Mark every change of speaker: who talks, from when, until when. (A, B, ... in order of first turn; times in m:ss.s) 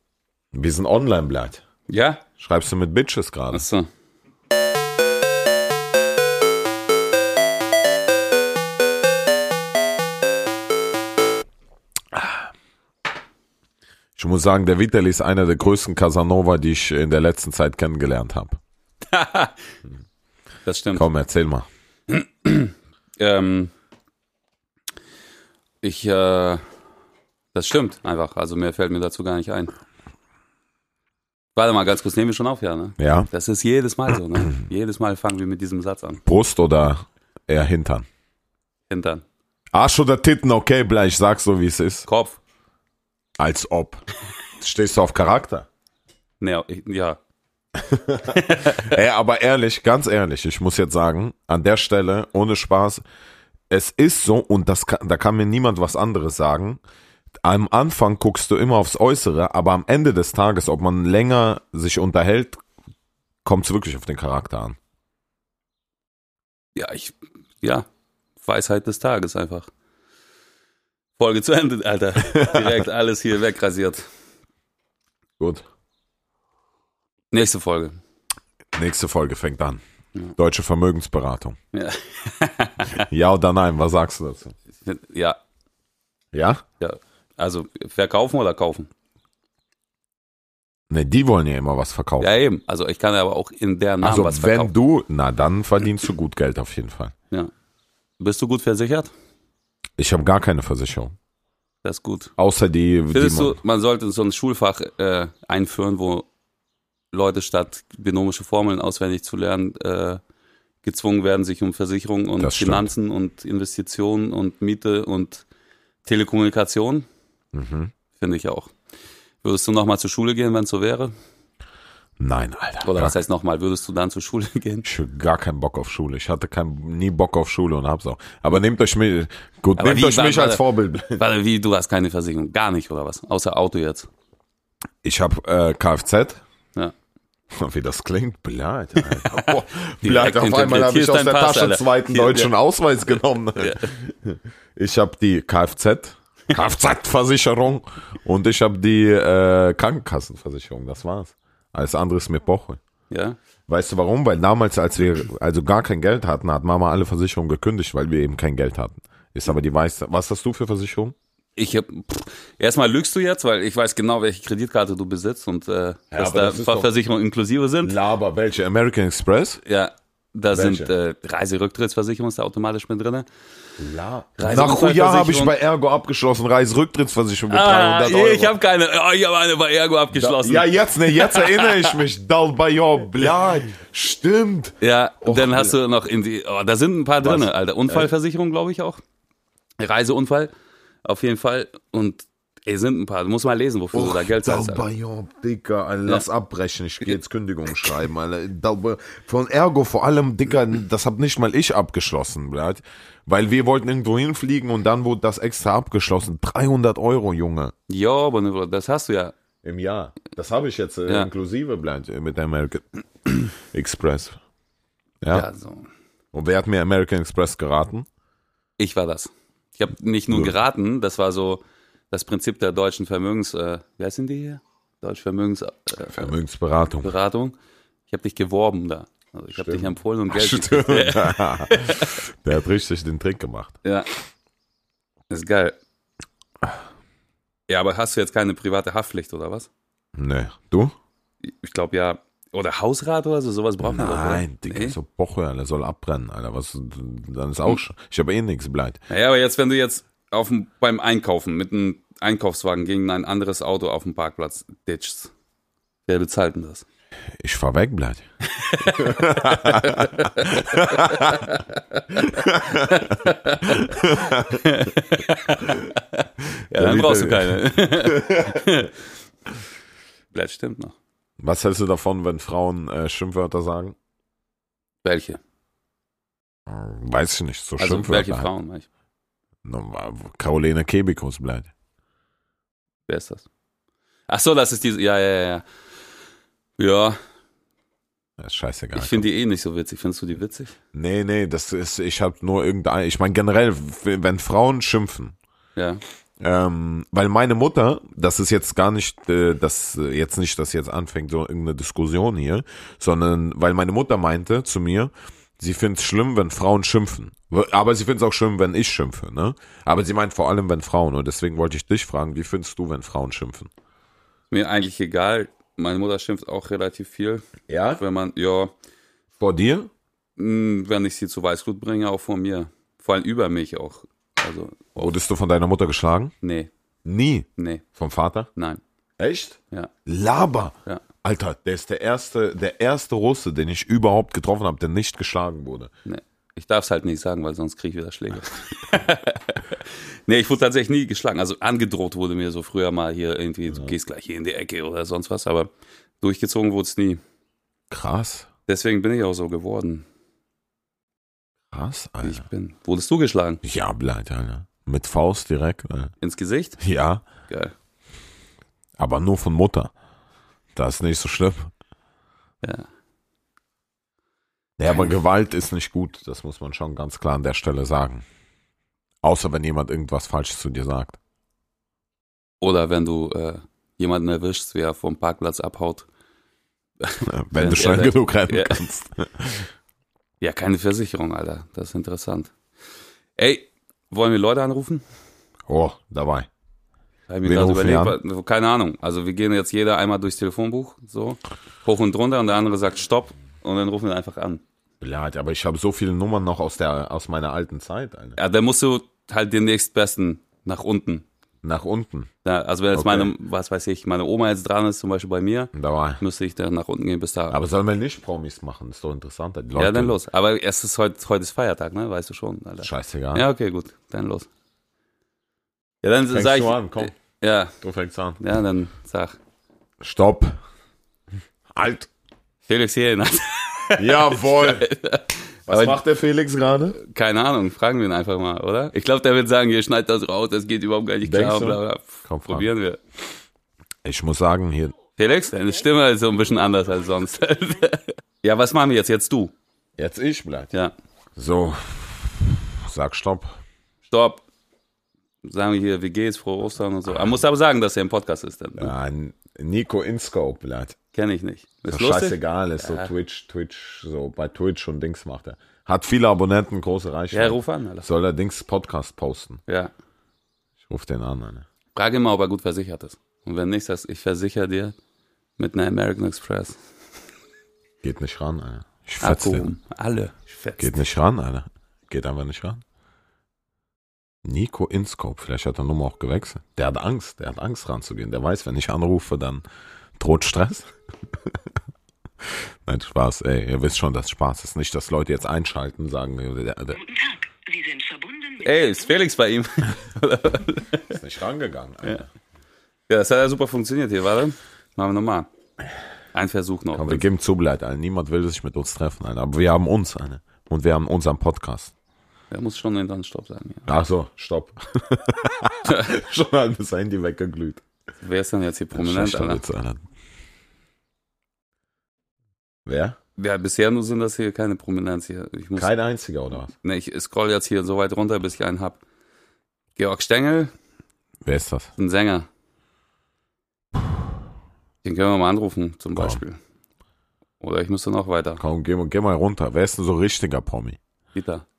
0:00.5-0:01.6 A
0:01.9-0:02.2 B
0:02.4-0:03.6 A
0:03.5-0:03.9 B
0:12.1-0:12.4 A
0:14.2-0:18.6 A
0:19.0-0:19.7 B
0:20.6-0:21.0 B
0:20.9-0:21.7 A
0:22.1-0:23.7 B
0:25.8-0:26.6 B
0:27.5-0:29.7 B
0:31.5-0:36.2 B
0:33.0-0:33.3 A
0:36.2-0:38.0 A
0:38.9-0:39.2 B
0:39.7-0:42.1 A
0:42.0-0:42.4 B
0:43.4-0:44.0 A
0:44.6-0:45.7 A
0:46.4-0:47.2 B
0:47.8-0:53.0 A
0:48.3-0:48.9 B
0:53.7-0:56.8 A
0:57.4-1:02.6 A
1:03.4-1:04.8 A
1:06.7-1:07.8 B
1:08.4-1:09.7 B
1:11.2-1:14.0 B
1:12.2-1:12.7 A
1:15.4-1:15.6 A
1:17.3-1:18.0 B
1:18.7-1:19.8 A
1:20.4-1:21.6 A
1:21.7-1:23.0 B
1:23.0-1:24.5 A
1:24.8-1:25.4 B
1:26.3-1:26.6 A
1:26.8-1:28.9 B
1:30.9-1:32.3 A
1:32.2-1:34.7 B
1:34.0-1:37.1 A
1:38.2-1:39.1 B
1:40.0-1:41.1 A
1:41.8-1:42.3 B
1:42.4-1:43.6 A
1:43.1-1:46.3 B
1:47.1-1:50.2 B
1:50.8-1:55.4 B
1:52.4-1:52.9 A
1:56.0-1:57.1 B
1:57.5-1:57.9 A
1:58.2-1:58.7 B
1:59.4-2:01.1 B
2:02.2-2:03.1 A
2:02.8-2:04.8 B
2:04.8-2:11.2 A
2:09.8-2:14.1 B
2:15.0-2:16.4 A
2:17.5-2:32.8 A
2:19.1-2:19.5 B
2:20.0-2:22.5 B
2:23.6-2:23.9 B
2:33.1-2:33.4 B
2:33.7-2:41.1 A
2:41.6-2:47.9 B
2:46.1-2:46.9 A
2:47.8-2:49.6 A
2:49.6-2:53.3 B
2:50.5-2:50.9 A
2:53.8-2:58.5 A
2:54.4-2:55.5 B
2:57.5-3:02.0 B
3:00.1-3:05.7 A
3:04.8-3:09.0 B
3:07.2-3:08.1 A
3:09.8-3:10.5 B
3:11.0-3:14.8 B
3:13.9-3:27.7 A
3:27.9-3:29.3 B
3:29.6-3:32.8 A
3:33.4-3:34.4 A
3:35.2-3:35.5 A
3:35.3-3:35.9 B
3:36.3-3:38.0 A
3:38.8-3:46.3 B
3:46.0-3:47.1 A
3:47.0-3:47.6 B
3:48.1-3:52.2 B
3:49.5-3:53.7 A
3:53.8-3:54.1 B
3:55.3-3:55.8 B
3:57.7-3:59.7 B
4:00.2-4:00.9 A
4:01.4-4:05.0 B
4:03.8-4:09.0 A
4:09.1-4:15.3 B
4:16.1-4:16.8 B
4:17.4-4:18.2 A
4:18.4-4:21.6 B
4:18.9-4:21.5 A
4:22.1-4:24.6 A
4:22.9-4:28.9 B
4:26.7-4:28.6 A
4:30.3-4:30.9 B
4:31.4-4:33.9 A
4:35.0-4:35.4 B
4:36.7-4:38.5 A
4:37.8-4:38.9 B
4:39.6-4:41.7 A
4:43.1-4:43.4 B
4:44.3-4:45.6 B
4:46.8-4:47.2 B
4:48.4-4:49.3 A
4:48.9-4:50.8 B
4:50.9-4:55.3 A
4:55.8-4:56.0 B
4:56.4-5:13.7 A
5:14.5-5:18.7 B
5:17.7-5:18.0 A
5:19.4-5:19.9 A
5:20.4-5:25.2 B
5:25.0-5:26.3 A
5:26.4-5:26.7 B
5:27.0-5:28.5 A
5:27.6-5:27.8 B
5:28.6-5:28.8 B
5:29.2-5:35.9 A
5:36.0-5:45.7 B
5:46.2-5:47.2 B
5:47.9-5:48.5 A
5:48.7-5:50.0 B
5:51.7-5:52.4 A
5:52.2-5:53.6 B
5:53.6-5:56.1 A
5:56.2-5:56.8 B
5:56.8-5:57.2 A
5:57.5-5:57.7 B
5:59.0-5:59.9 A
6:00.7-6:01.7 A
6:02.6-6:02.9 B
6:04.8-6:08.2 A
6:09.2-6:11.2 A
6:12.6-6:16.0 B
6:17.0-6:18.8 B
6:17.2-6:19.7 A
6:20.4-6:22.5 B
6:23.4-6:25.0 B
6:25.7-6:26.5 A
6:27.3-6:34.6 B
6:27.4-6:28.2 A
6:35.0-6:38.4 A
6:38.4-6:41.2 B
6:41.6-6:42.3 A
6:42.4-6:47.6 B
6:42.9-6:43.3 A
6:45.7-6:46.2 A
6:47.5-6:50.2 A
6:49.8-6:54.5 B
6:52.8-6:53.4 A
6:56.0-6:57.8 B
6:56.3-6:57.1 A
6:57.8-6:58.4 A
6:58.4-6:59.4 B
7:00.0-7:00.6 A
7:01.7-7:02.1 A
7:02.6-7:06.0 B
7:04.0-7:04.9 A
7:05.7-7:07.0 A
7:06.9-7:13.0 B
7:11.2-7:12.7 A
7:14.0-7:15.0 A
7:15.2-7:19.5 B
7:20.0-7:20.7 A
7:21.4-7:23.6 A
7:24.1-7:24.4 B
7:25.4-7:28.9 B
7:28.8-7:31.0 A
7:31.1-7:33.1 B
7:31.9-7:39.6 A
7:37.3-7:38.1 B
7:39.7-7:39.9 B
7:40.9-7:41.6 A
7:41.9-7:45.0 B
7:45.6-7:46.8 B
7:48.0-7:49.7 A
7:49.2-7:50.9 B
7:50.8-7:52.8 A
7:54.4-7:59.6 A
8:00.2-8:00.9 A
8:02.6-8:07.0 A
8:07.0-8:09.1 C
8:08.6-8:11.2 B
8:11.1-8:12.3 A
8:13.1-8:15.5 B
8:16.3-8:17.2 B
8:16.9-8:21.9 A
8:22.5-8:23.9 B
8:23.9-8:27.8 A
8:28.2-8:29.6 B
8:28.9-8:30.0 A
8:32.8-8:33.2 A
8:33.4-8:35.9 B
8:35.8-8:36.7 A
8:36.8-8:39.0 B
8:40.0-8:40.7 B
8:41.4-8:41.9 A
8:42.0-8:42.5 B
8:45.0-8:46.6 B
8:46.1-8:46.4 A
8:47.6-8:48.6 B
8:48.6-8:51.0 A
8:51.3-8:51.6 B